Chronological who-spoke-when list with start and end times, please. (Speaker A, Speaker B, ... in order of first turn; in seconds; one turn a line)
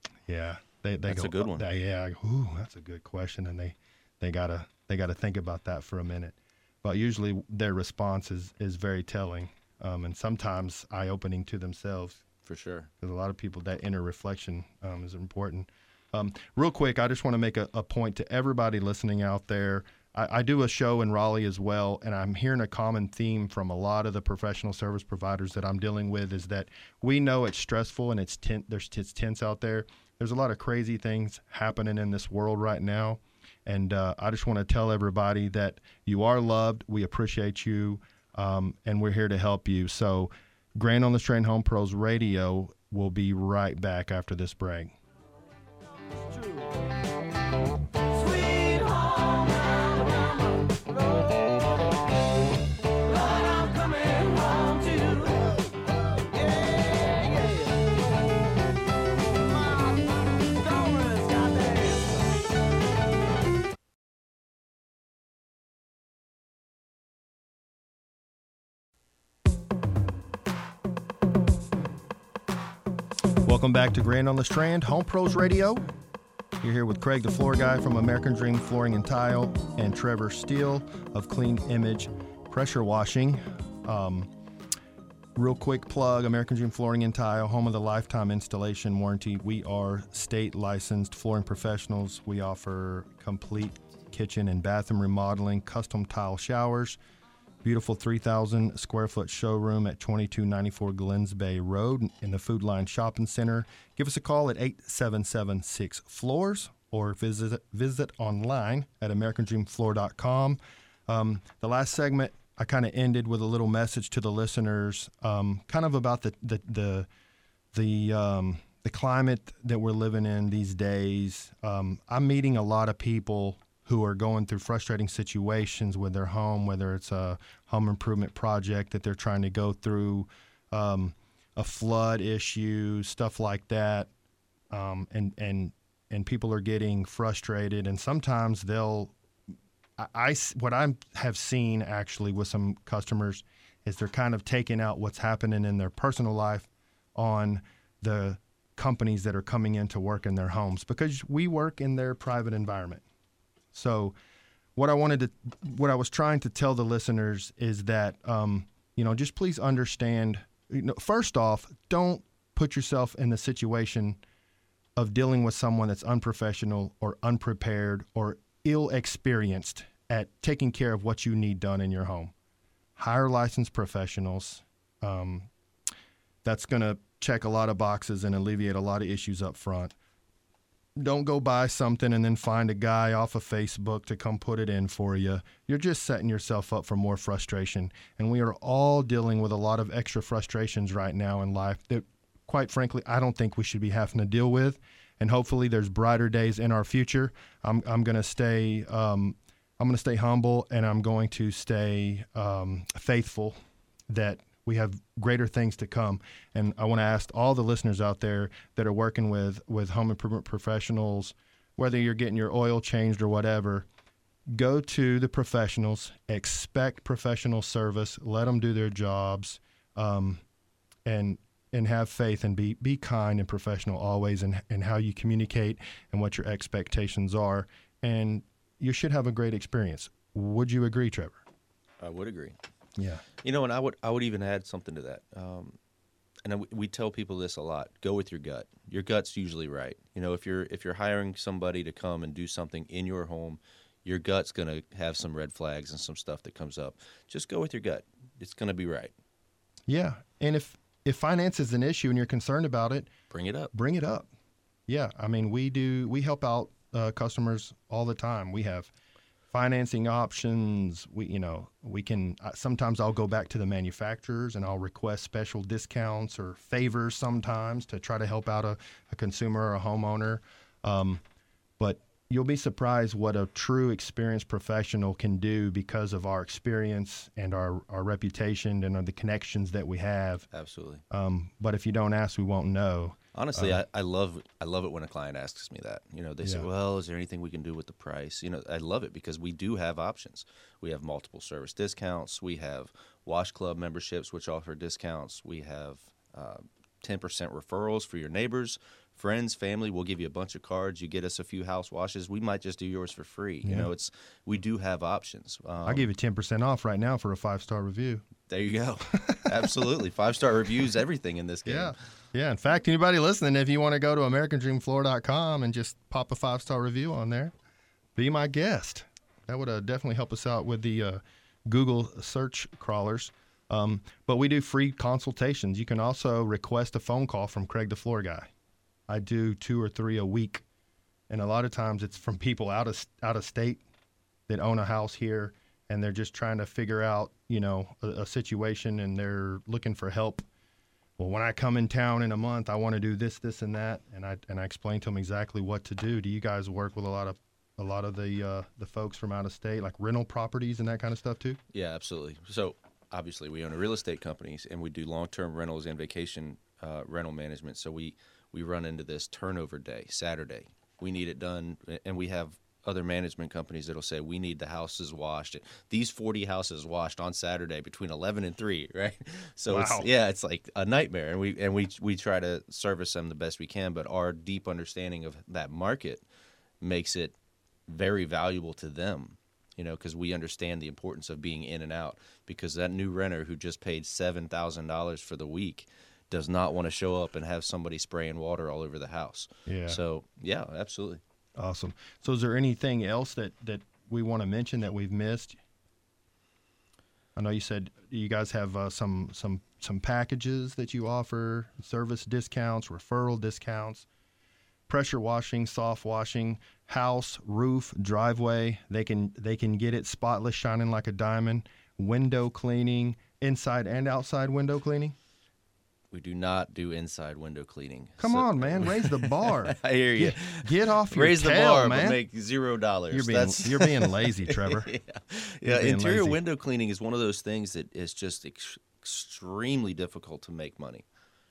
Speaker A: 0.3-12.2
Speaker B: 1.1-1.6
Speaker B: 12.4-12.9
Speaker A: 13.0-44.9
Speaker C: 46.2-46.6
Speaker C: 48.1-51.4
Speaker C: 53.0-57.8
Speaker C: 59.5-62.1
Speaker A: 73.4-75.9
Speaker A: 76.6-84.3
Speaker A: 85.3-97.0
Speaker A: 97.6-117.1
Speaker A: 117.7-134.1
Speaker A: 134.7-139.1
Speaker A: 140.0-153.0
Speaker A: 153.7-154.1
Speaker A: 154.8-164.2
Speaker A: 164.9-172.3
Speaker A: 173.0-175.5
Speaker A: 176.4-179.9
Speaker A: 181.0-203.6
Speaker A: 204.1-213.9
Speaker A: 214.5-220.4
Speaker A: 221.0-231.4
Speaker B: 232.0-232.6
Speaker A: 232.9-233.2
Speaker B: 233.4-235.8
Speaker B: 236.4-249.1
Speaker A: 249.9-253.1
Speaker B: 253.3-253.7
Speaker A: 253.7-254.3
Speaker A: 254.9-258.9
Speaker A: 259.5-271.2
Speaker A: 271.8-280.5
Speaker B: 280.5-281.0
Speaker A: 281.1-283.8
Speaker B: 283.3-306.1
Speaker A: 286.4-286.7
Speaker A: 303.6-303.9
Speaker A: 305.9-308.2
Speaker B: 308.5-311.9
Speaker A: 309.1-309.7
Speaker A: 311.6-317.5
Speaker A: 318.1-328.5
Speaker A: 329.1-330.6
Speaker A: 331.3-333.8
Speaker A: 334.5-340.4
Speaker A: 341.2-351.6
Speaker B: 351.7-376.2
Speaker A: 369.7-370.1
Speaker B: 376.8-377.3
Speaker B: 377.9-391.2
Speaker A: 389.6-390.0
Speaker A: 391.6-395.6
Speaker A: 397.4-404.1
Speaker A: 404.9-415.1
Speaker B: 416.1-431.0
Speaker A: 418.2-422.2
Speaker A: 423.1-424.9
Speaker A: 425.6-426.4